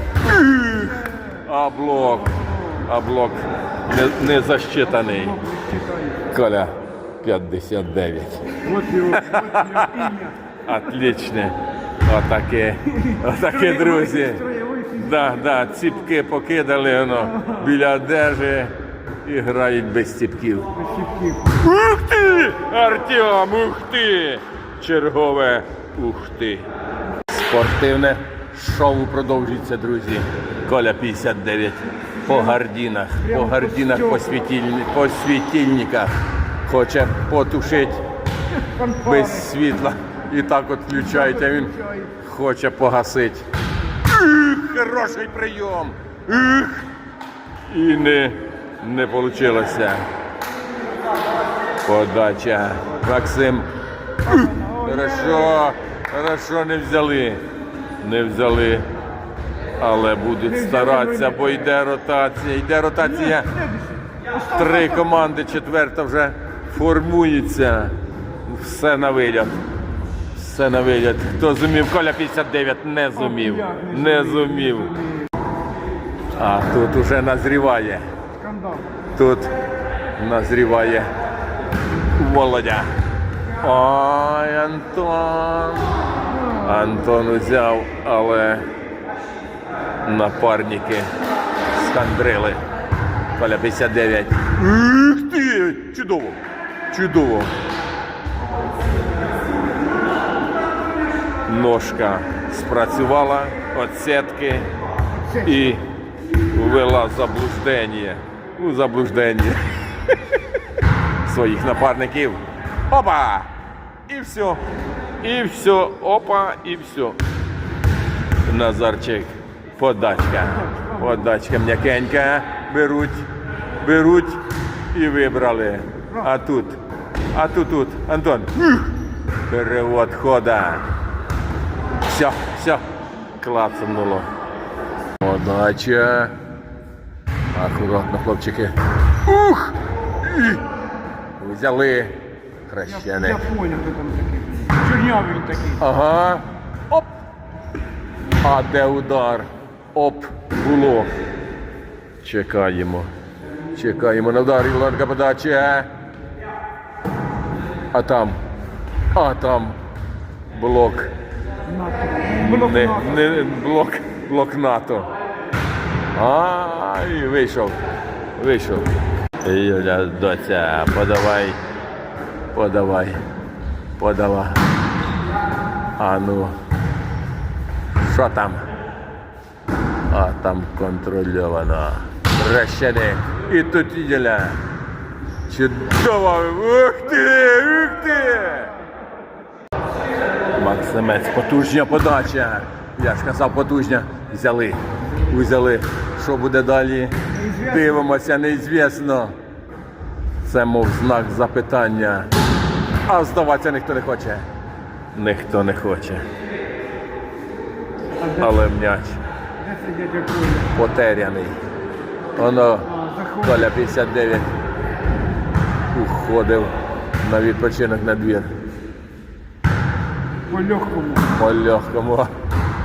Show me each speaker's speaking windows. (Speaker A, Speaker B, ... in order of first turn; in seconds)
Speaker A: 0.2-5.4, 6.3-20.7, 21.4-26.7, 27.3-38.0, 38.8-43.5, 44.0-46.9, 47.7-50.1, 51.8-53.7, 54.2-57.4, 58.0-58.9, 59.8-63.6, 64.3-67.9, 68.5-69.6, 70.3-75.0, 76.3-78.1, 79.1-79.5, 80.2-81.1, 82.1-82.9, 83.6-88.7, 90.0-91.1, 91.7-92.6, 93.3-97.5, 101.5-104.7, 105.3-105.8, 106.5-110.4, 111.2-113.5, 114.1-114.6, 115.2-117.2, 118.4-123.3, 123.8-126.8, 127.3-128.9, 129.5-130.8, 132.0-132.8, 133.4-134.3, 135.2-136.3, 137.5-140.6, 141.4-143.4, 145.8-147.1, 148.4-151.1, 152.2-153.1, 153.7-155.9, 157.9-158.4, 159.1-159.8, 160.5-161.1, 162.4-165.1, 166.1-167.8, 168.4-168.9, 169.4-171.6, 172.5-173.2, 174.0-174.6, 176.0-176.5, 178.0-178.7, 180.1-184.6, 185.5-188.8, 190.6-199.3, 200.4-202.3, 203.1-204.4, 205.1-206.2, 208.3-209.2, 210.7-211.6, 212.3-214.5, 215.9-218.5, 221.2-222.3
Speaker B: 5.4-6.2, 8.7-10.3, 13.7-15.0, 20.8-21.5, 33.5-33.9, 38.7-39.0, 41.6-42.0, 54.3-54.9, 63.5-64.3, 73.5-73.9, 78.4-78.8, 143.1-145.8, 161.7-163.1, 209.7-210.6, 213.0-213.4, 220.5-221.3